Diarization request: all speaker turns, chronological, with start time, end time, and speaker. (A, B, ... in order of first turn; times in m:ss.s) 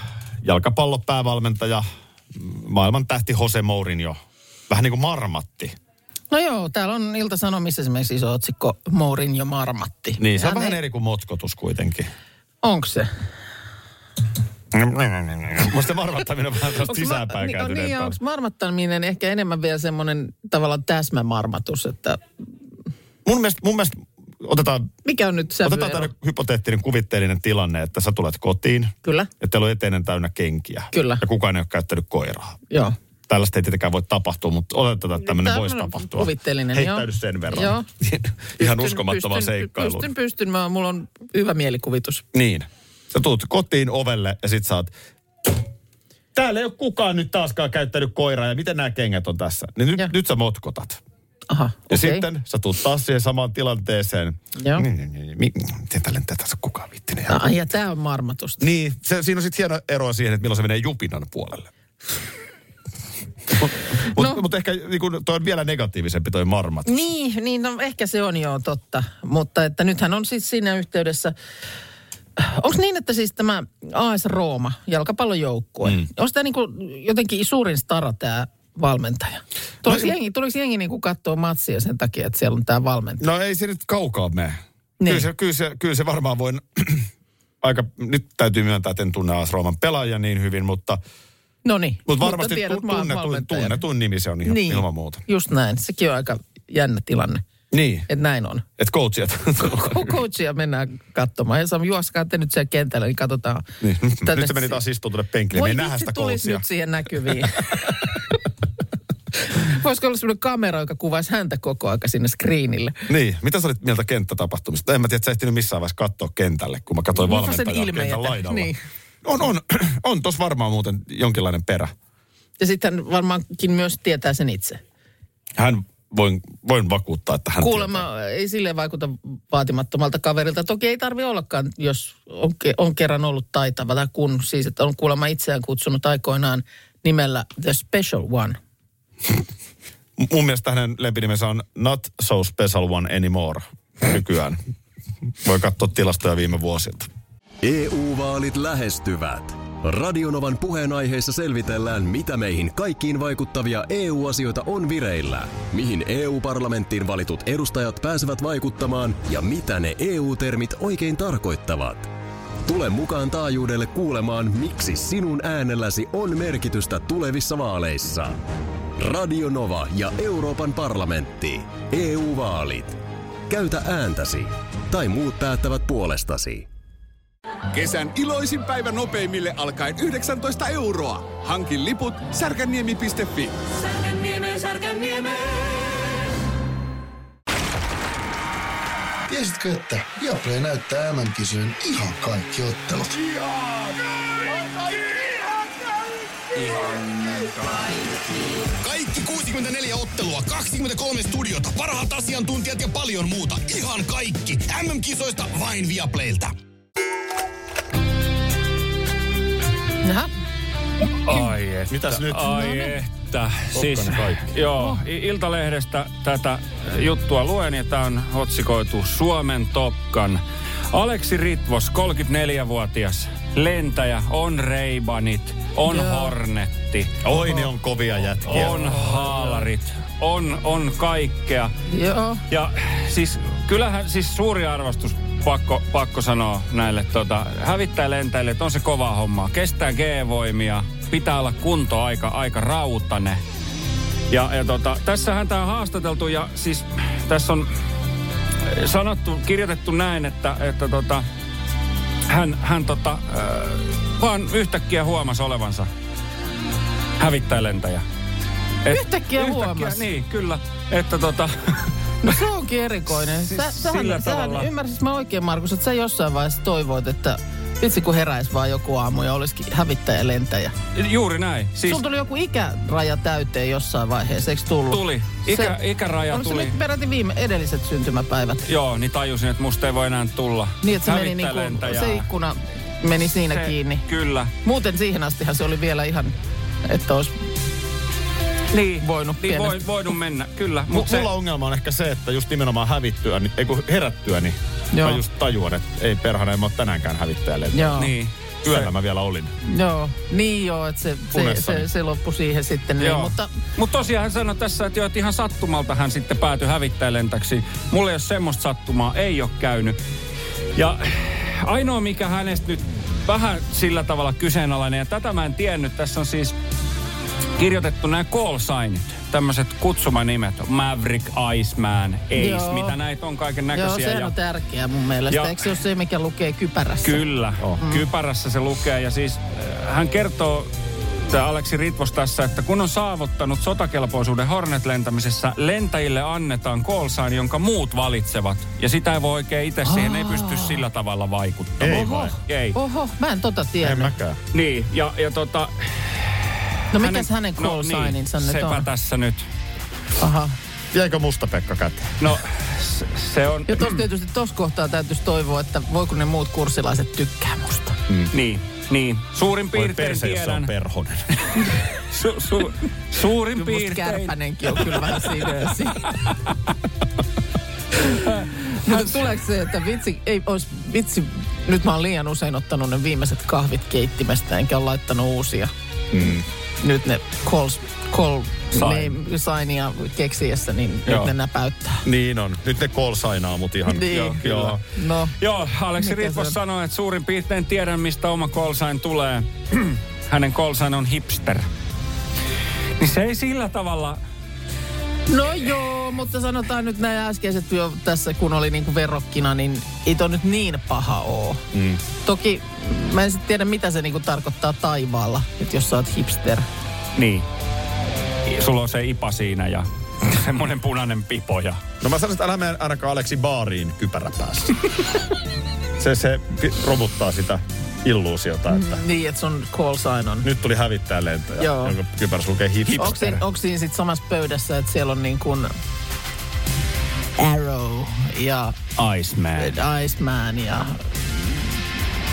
0:00.4-0:04.2 A
0:04.7-0:05.8 A
0:06.3-0:10.8 B
0:10.2-0:12.1 A
0:12.6-0:13.1 B
0:14.7-0:18.2 A
0:16.8-0:22.2 B
0:23.2-0:24.9 A
0:25.0-0:26.1 B
0:25.6-0:32.6 A
0:29.0-0:29.3 B
0:30.9-0:31.2 B
0:33.3-0:40.1 A
0:35.2-0:37.9 B
0:38.6-0:42.2 B
0:42.3-0:44.9 A
0:46.4-0:51.0 A
0:51.5-0:52.2 B
0:51.9-0:57.5 A
0:54.6-0:54.9 B
0:57.3-0:58.6 B
0:58.6-1:01.7 A
1:03.5-1:06.9 A
1:04.1-1:04.4 B
1:06.8-1:11.3 B
1:12.4-1:23.2 B
1:19.8-1:20.1 A
1:23.2-1:27.1 A
1:25.0-1:25.3 B
1:27.6-1:31.0 A
1:31.6-1:33.8 B
1:32.0-1:35.2 A
1:34.4-1:37.4 B
1:37.7-1:38.1 A
1:38.1-1:38.6 B
1:38.8-1:40.2 A
1:39.6-1:43.7 B
1:43.8-1:46.6 A
1:44.2-1:44.8 B
1:45.5-1:48.2 B
1:47.2-1:47.5 A
1:49.5-1:53.0 B
1:53.1-1:58.7 A
1:57.1-1:58.8 B
1:59.2-2:01.9 A
2:02.6-2:04.8 B
2:05.6-2:08.0 A
2:07.6-2:18.6 B
2:20.2-2:24.6 A
2:25.4-2:27.1 A
2:27.6-2:42.1 C
2:42.6-2:48.4 C
2:49.0-2:53.0 C
2:53.5-2:56.7 C
2:57.7-3:05.6 D
3:09.3-3:13.1 E
3:18.8-3:26.5 F
3:30.0-3:30.3 B
3:31.2-3:47.2 G
3:31.9-3:32.6 A
3:32.5-3:32.9 B
3:33.7-3:34.5 A
3:45.9-3:46.3 B
3:47.2-3:48.9 A
3:48.5-3:51.7 G
3:48.6-3:49.6 B
3:51.9-3:52.4 B
3:52.5-4:03.4 G
4:04.3-4:07.7 G
4:08.6-4:11.2 G
4:12.3-4:15.9 G
4:17.2-4:18.0 G
4:18.8-4:22.4 G
4:18.9-4:20.0 B
4:22.2-4:30.8 B
4:23.3-4:24.7 G
4:30.9-4:32.0 G
4:31.9-4:35.8 B
4:34.9-4:36.8 G
4:36.3-4:38.6 B
4:38.6-4:42.3 G
4:40.8-4:44.0 B
4:43.5-4:44.5 G
4:44.6-4:47.4 B
4:48.7-4:51.3 G
4:48.8-4:49.8 B
4:50.9-4:58.0 A
4:54.9-4:55.2 B
4:57.7-4:58.1 B
4:58.0-4:58.8 G
4:58.6-4:59.5 A
4:59.6-5:03.5 B
5:01.3-5:01.9 A
5:03.0-5:10.0 G
5:10.8-5:16.5 G
5:17.6-5:24.3 G
5:22.4-5:23.0 B
5:23.7-5:27.2 B
5:25.3-5:25.8 G
5:27.0-5:42.8 G
5:27.8-5:28.0 B
5:39.9-5:40.8 B
5:41.8-5:42.4 A
5:41.9-5:44.1 B
5:43.8-5:44.4 A
5:44.5-5:49.4 G
5:46.9-5:48.9 B
5:50.2-5:50.5 B
5:50.9-5:52.2 A
5:52.2-5:54.0 G
5:53.7-5:58.0 B
5:58.1-5:58.3 A
5:58.3-6:00.7 G
5:59.7-6:01.4 A
6:01.6-6:06.4 G
6:03.5-6:06.3 B
6:08.0-6:15.7 B
6:08.1-6:09.3 G
6:16.1-6:16.4 A
6:16.2-6:22.0 B
6:18.8-6:19.1 G
6:22.0-6:24.8 A
6:23.9-6:25.4 B
6:25.4-6:31.6 G
6:26.0-6:26.6 B
6:33.0-6:34.2 G
6:35.3-6:41.6 B
6:41.7-6:42.0 A
6:42.2-6:46.6 B
6:47.2-6:47.5 G
6:48.4-6:51.8 G
6:52.0-6:54.8 A
6:56.0-6:59.0 A
6:58.7-7:00.5 B
7:00.4-7:03.4 A
7:01.6-7:02.0 B
7:02.9-7:05.7 B
7:07.4-7:08.8 B
7:09.0-7:09.8 G
7:09.6-7:11.8 B